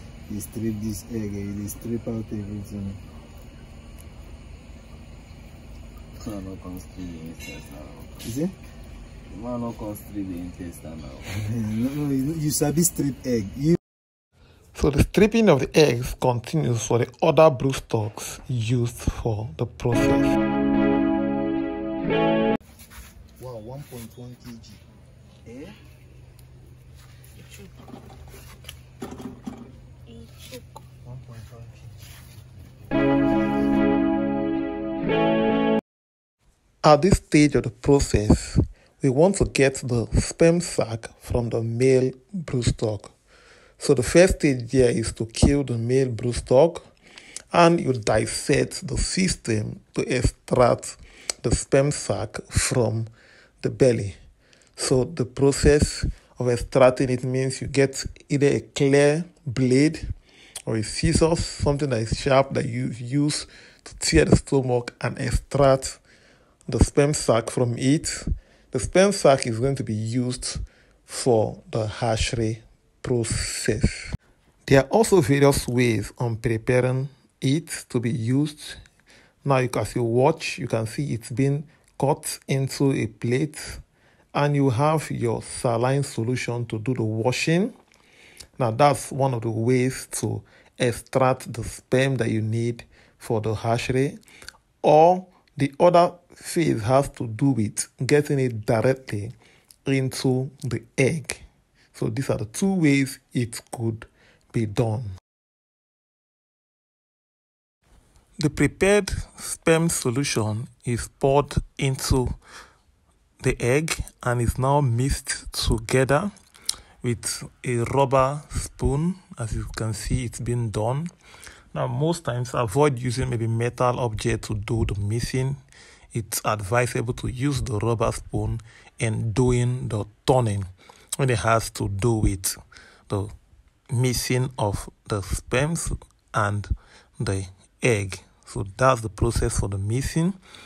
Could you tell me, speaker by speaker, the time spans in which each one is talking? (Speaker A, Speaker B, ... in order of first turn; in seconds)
Speaker A: 0.3-3.0, 8.2-8.6, 11.3-13.8, 23.4-24.8, 25.4-25.8, 31.0-31.9
Speaker B: 6.2-8.2, 9.3-11.2
Speaker C: 14.8-20.4, 36.8-43.1, 43.8-46.9, 47.5-53.1, 53.6-54.1, 54.8-60.0, 60.7-66.0, 66.7-74.2, 74.7-78.8, 79.4-83.8, 84.3-87.7, 88.6-94.2, 94.8-99.3, 99.9-101.4, 101.9-105.1, 108.4-112.4, 113.4-116.3, 117.0-121.1, 121.7-125.6, 126.1-130.7, 131.2-132.6, 133.1-133.3, 133.9-140.4